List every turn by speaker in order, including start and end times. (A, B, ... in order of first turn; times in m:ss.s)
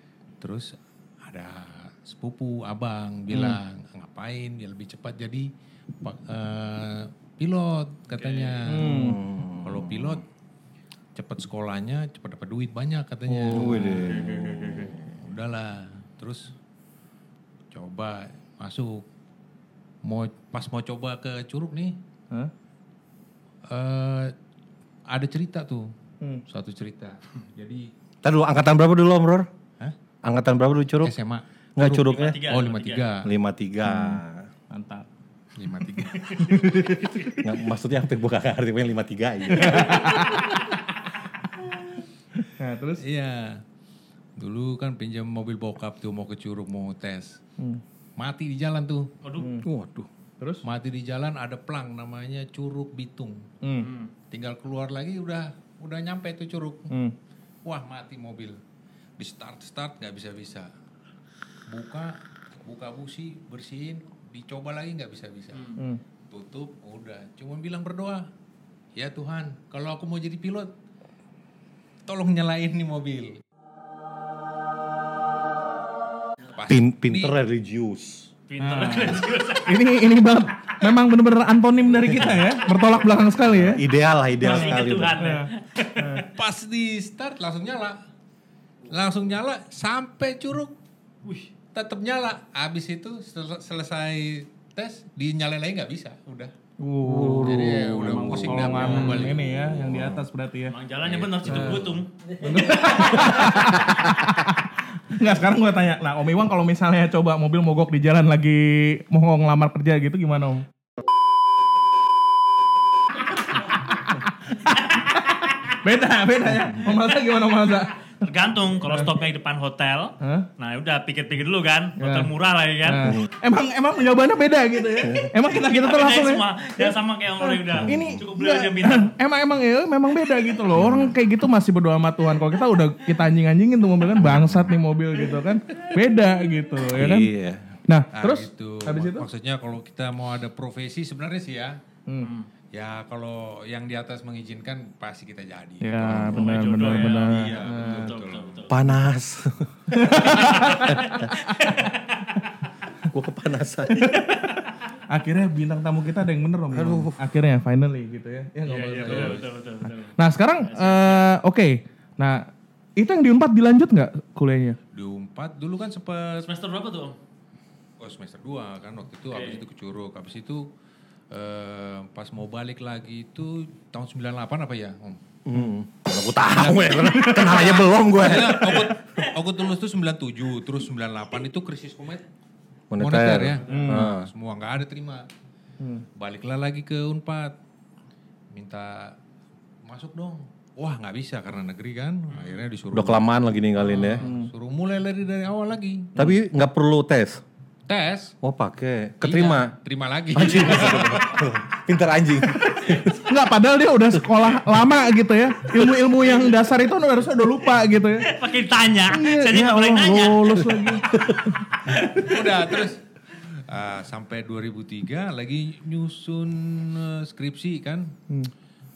0:00.4-0:05.5 A
0:03.3-0:03.6 B
0:06.0-0:10.2 A
0:08.2-0:08.7 C
0:08.7-0:09.2 B
0:08.8-0:10.2 D
0:11.2-0:14.1 A
0:13.3-0:15.0 B
0:13.5-0:15.0 D
0:15.0-0:16.5 A
0:17.7-0:19.1 A
0:20.0-0:22.0 A
0:23.7-0:24.3 A
0:25.1-0:25.9 A
0:26.5-0:27.9 A
0:28.2-0:29.5 D
0:30.2-0:31.1 D
0:31.0-0:33.3 A
0:31.8-0:32.4 D
0:31.8-0:33.2 C
0:33.2-0:34.5 D
0:33.9-0:34.2 B
0:34.7-0:35.1 B
0:35.6-0:37.0 A
0:36.2-0:36.6 C
0:36.5-0:37.4 B
0:37.4-0:40.4 D
0:39.6-0:40.5 B
0:42.4-0:43.0 B
0:43.0-0:43.6 A
0:44.4-0:47.4 A
0:48.2-0:49.1 A
0:49.2-0:49.5 C
0:49.4-0:49.7 B
0:49.6-0:50.1 D
0:50.6-0:53.4 A
0:53.6-0:53.9 B
0:53.8-0:54.1 C
0:54.3-0:56.9 A
0:56.9-0:57.2 B
0:57.6-0:58.6 A
0:59.2-1:00.7 A
1:01.7-1:05.8 A
1:05.5-1:05.8 C
1:06.3-1:08.3 A
1:09.0-1:10.7 A
1:12.1-1:13.4 A
1:16.5-1:17.4 A
1:16.7-1:18.3 D
1:18.5-1:19.8 C
1:18.6-1:23.8 B
1:23.5-1:25.2 D
1:24.4-1:26.2 C
1:24.4-1:26.3 B
1:26.3-1:28.0 A
1:28.9-1:30.8 A
1:31.2-1:31.5 C
1:31.7-1:36.5 A
1:36.8-1:40.8 B
1:37.0-1:40.2 D
1:37.4-1:40.0 A
1:40.7-1:42.1 C
1:41.0-1:42.0 A
1:41.4-1:41.8 B
1:42.4-1:50.7 B
1:42.8-1:43.2 C
1:54.5-1:58.0 B
1:58.2-2:03.2 C
1:58.9-1:59.1 B
2:00.2-2:00.5 B
2:02.0-2:02.3 B
2:02.8-2:17.3 B
2:05.5-2:09.1 C
2:07.7-2:08.2 D
2:10.7-2:11.2 D
2:16.9-2:17.8 D
2:17.9-2:19.3 B
2:18.1-2:21.8 A
2:22.2-2:22.5 C
2:22.7-2:28.9 A
2:25.8-2:28.2 B
2:26.0-2:26.4 D
2:26.3-2:28.8 C
2:28.7-2:30.3 D
2:29.9-2:31.7 B
2:30.4-2:32.3 C
2:33.1-2:34.1 D
2:34.0-2:39.4 B
2:36.7-2:37.2 D
2:38.7-2:41.3 C
2:39.0-2:39.5 A
2:40.2-2:44.8 B
2:44.9-2:46.5 A
2:46.4-2:47.2 C
2:48.0-2:50.7 A
2:49.3-2:49.6 C
2:51.3-2:55.2 A
2:55.5-2:58.9 D
2:56.5-3:02.2 A
3:02.9-3:04.3 D
3:03.0-3:05.3 A
3:03.7-3:04.1 B
3:05.8-3:06.1 B
3:06.2-3:07.6 A
3:08.5-3:09.2 A
3:09.8-3:16.3 A
3:12.3-3:12.7 C
3:12.9-3:14.2 D
3:14.2-3:14.5 B
3:16.2-3:17.4 D
3:17.9-3:18.4 A
3:18.4-3:19.8 D
3:19.2-3:21.4 A
3:20.3-3:23.2 D
3:22.7-3:28.3 B
3:28.2-3:31.0 C
3:29.1-3:31.6 B
3:31.0-3:31.5 D
3:31.9-3:32.3 C
3:32.0-3:38.1 A